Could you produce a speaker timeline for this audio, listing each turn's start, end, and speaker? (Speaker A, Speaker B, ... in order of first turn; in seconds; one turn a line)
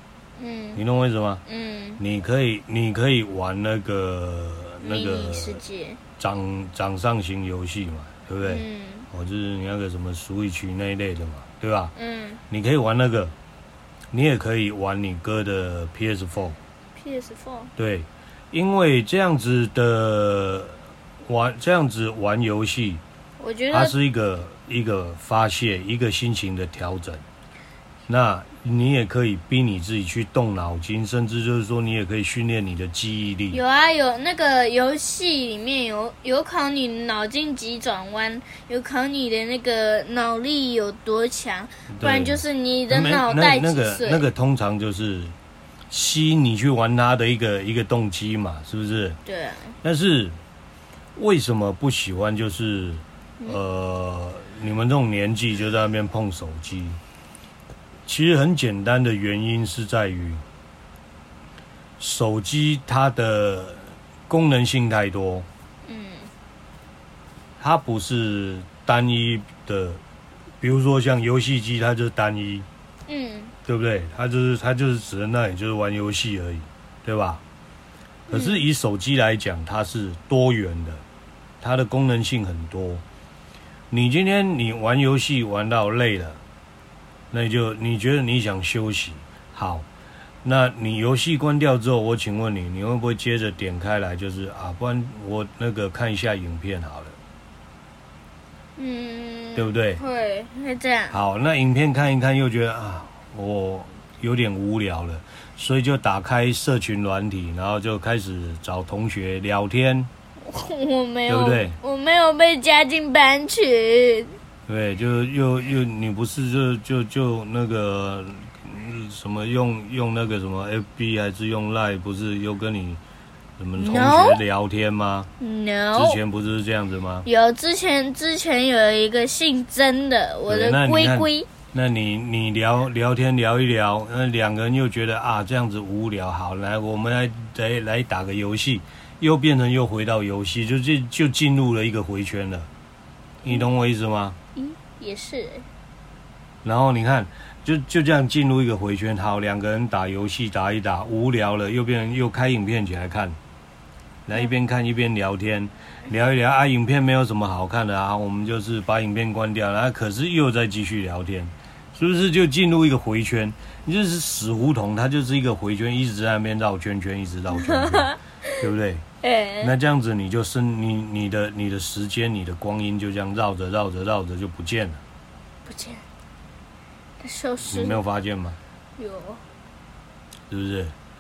Speaker A: 0.4-0.8
Speaker B: 0.8-1.4
Speaker A: 1.5-2.0
Speaker B: 2.0-5.6
Speaker A: 4.8-6.0
Speaker B: 6.2-11.9
Speaker A: 8.4-9.1
Speaker A: 12.0-12.4
Speaker B: 12.5-13.3
Speaker B: 14.1-16.6
Speaker A: 17.0-17.7
Speaker B: 17.8-23.0
Speaker A: 23.4-23.9
Speaker B: 23.7-27.2
Speaker B: 28.1-33.6
Speaker A: 33.5-44.2
Speaker B: 41.9-45.4
Speaker B: 45.9-49.2
Speaker A: 49.3-49.8
Speaker B: 49.8-50.4
Speaker B: 51.2-57.0
Speaker B: 58.1-60.4
Speaker B: 62.0-65.5
Speaker A: 65.9-66.3
Speaker B: 67.6-70.0
Speaker B: 70.6-72.7
Speaker A: 73.1-73.5
Speaker B: 73.7-77.4
Speaker B: 78.3-81.0
Speaker A: 78.3-78.6
Speaker B: 81.6-83.0
Speaker B: 83.9-86.4
Speaker B: 87.3-89.9
Speaker B: 90.4-97.2
Speaker A: 98.8-101.2
Speaker B: 99.6-100.0
Speaker B: 101.1-110.1
Speaker A: 110.4-114.3
Speaker B: 111.3-111.8
Speaker B: 114.7-123.0
Speaker B: 123.6-125.3
Speaker A: 123.8-124.4
Speaker A: 125.4-126.2
Speaker B: 125.9-127.3
Speaker A: 127.2-131.5
Speaker B: 130.5-142.7
Speaker B: 143.4-144.4
Speaker A: 144.6-145.7
Speaker B: 146.6-153.4
Speaker B: 154.3-169.1
Speaker A: 167.5-168.6
Speaker A: 169.2-169.7
Speaker B: 169.6-175.0
Speaker A: 175.7-176.0
Speaker A: 177.2-178.0
Speaker B: 177.7-178.6
Speaker A: 179.0-179.4
Speaker B: 180.5-180.9